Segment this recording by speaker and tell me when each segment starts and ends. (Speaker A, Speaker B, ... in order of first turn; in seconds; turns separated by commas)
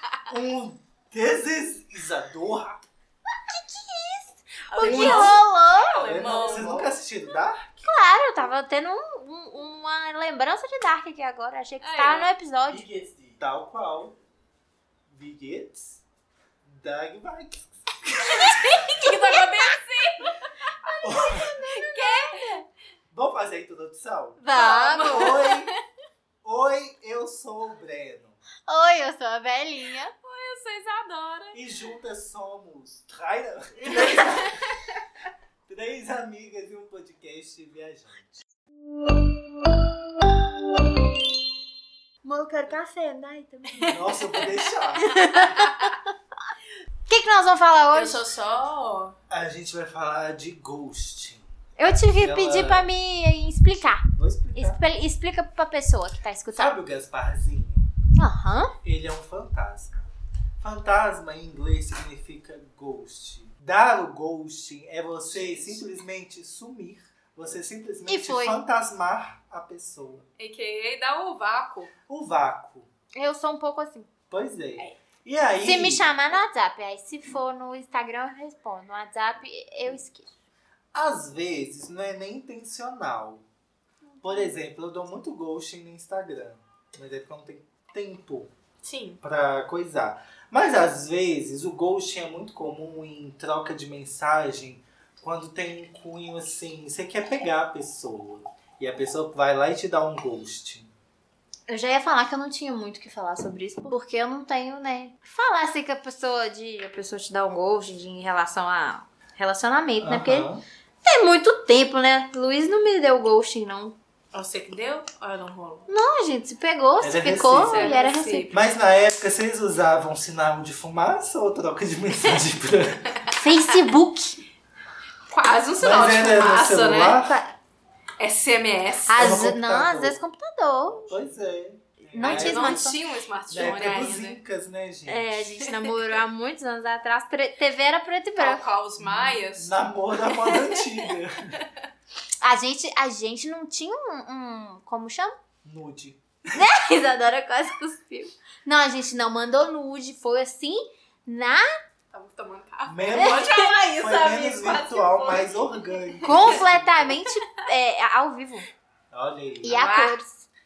Speaker A: 0.3-2.8, Speaker B: 3.5-6.8, Speaker C: 4.7-6.9, Speaker A: 4.8-5.4, Speaker A: 6.0-7.9, Speaker B: 7.8-12.9, Speaker C: 11.8-12.3, Speaker A: 12.7-14.2, Speaker A: 15.1-16.0, Speaker A: 16.6-19.0, Speaker C: 18.4-20.9, Speaker B: 19.0-19.8, Speaker B: 20.8-22.6, Speaker A: 21.0-21.6, Speaker C: 21.6-22.6, Speaker A: 23.1-25.7, Speaker B: 24.4-25.5, Speaker C: 24.5-25.7, Speaker A: 26.4-28.4, Speaker B: 28.7-30.1, Speaker C: 30.2-31.6, Speaker A: 31.5-34.8, Speaker A: 35.7-38.4, Speaker B: 42.2-44.2, Speaker A: 43.8-45.6, Speaker B: 45.0-46.0, Speaker C: 45.1-45.9, Speaker B: 47.1-48.2, Speaker C: 47.9-49.1, Speaker A: 49.3-52.9, Speaker B: 51.8-56.7, Speaker A: 54.1-54.8, Speaker A: 56.5-57.9, Speaker B: 58.1-58.7, Speaker A: 58.8-60.1, Speaker A: 60.6-70.2, Speaker C: 65.3-65.8, Speaker B: 68.1-68.6, Speaker C: 70.4-71.9, Speaker A: 72.1-72.9, Speaker B: 73.1-74.1, Speaker A: 74.3-76.1, Speaker B: 75.6-80.3, Speaker A: 80.9-83.4, Speaker C: 84.1-84.5, Speaker A: 84.2-88.5, Speaker C: 88.8-89.2, Speaker A: 89.2-100.9, Speaker B: 101.7-110.5, Speaker A: 110.0-110.6, Speaker B: 111.0-113.9, Speaker C: 114.3-115.9, Speaker B: 115.9-118.5, Speaker A: 117.0-117.9, Speaker C: 117.6-118.5, Speaker A: 118.5-123.1, Speaker B: 123.3-124.4, Speaker C: 125.3-127.2, Speaker A: 125.8-127.4, Speaker B: 127.2-127.5, Speaker C: 128.2-129.2, Speaker B: 129.1-131.1, Speaker A: 129.1-130.2, Speaker A: 130.9-132.9, Speaker B: 132.1-133.0, Speaker C: 132.2-134.4, Speaker A: 133.5-135.4, Speaker B: 135.1-138.6, Speaker C: 135.6-136.1, Speaker C: 138.4-140.9, Speaker A: 139.0-141.6, Speaker B: 142.4-145.3, Speaker A: 145.6-146.6, Speaker B: 146.5-151.7, Speaker C: 152.1-156.6, Speaker A: 152.8-157.0, Speaker B: 153.1-153.7, Speaker B: 156.2-158.7, Speaker A: 159.1-159.8, Speaker B: 159.6-160.5, Speaker C: 159.6-160.2